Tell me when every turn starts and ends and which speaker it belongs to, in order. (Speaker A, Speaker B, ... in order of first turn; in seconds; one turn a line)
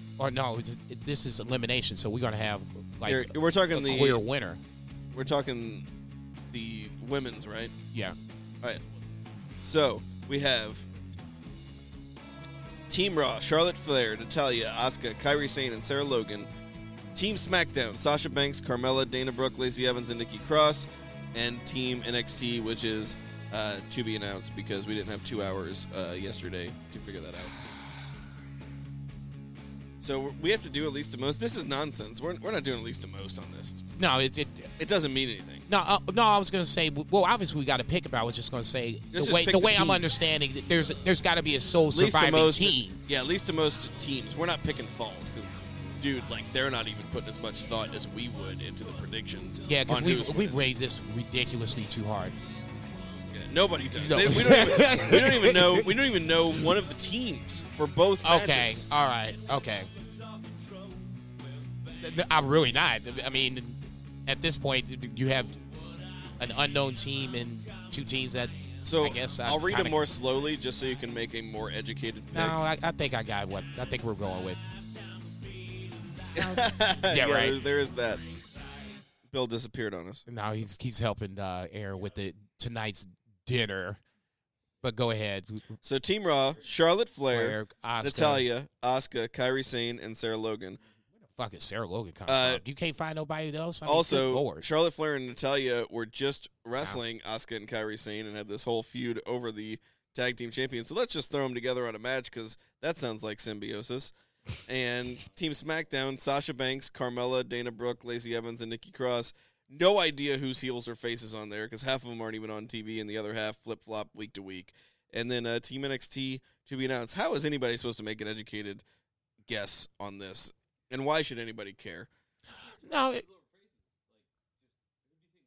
Speaker A: 0.2-4.6
Speaker B: 3.0-4.2
Speaker B: 5.1-5.9
Speaker B: 6.5-7.7
Speaker B: 9.6-10.8
Speaker B: 12.9-16.5
Speaker B: 17.1-27.6
Speaker B: 30.0-33.8
Speaker A: 33.9-34.7
Speaker B: 34.8-35.6
Speaker A: 35.7-43.0
Speaker B: 39.1-40.1
Speaker B: 41.9-50.6
Speaker A: 49.6-52.4
Speaker B: 53.3-58.9
Speaker A: 54.0-55.9
Speaker A: 58.2-59.9
Speaker A: 62.0-65.6
Speaker A: 66.4-70.0
Speaker B: 68.8-72.6
Speaker A: 72.3-74.6
Speaker A: 76.3-77.6
Speaker B: 76.3-78.2
Speaker B: 79.3-80.2
Speaker A: 80.3-84.0
Speaker A: 84.8-85.8
Speaker B: 85.8-90.8
Speaker A: 87.3-88.4
Speaker A: 91.3-94.7
Speaker B: 92.3-92.6
Speaker B: 93.8-118.8
Speaker B: 119.5-122.1
Speaker A: 122.8-123.2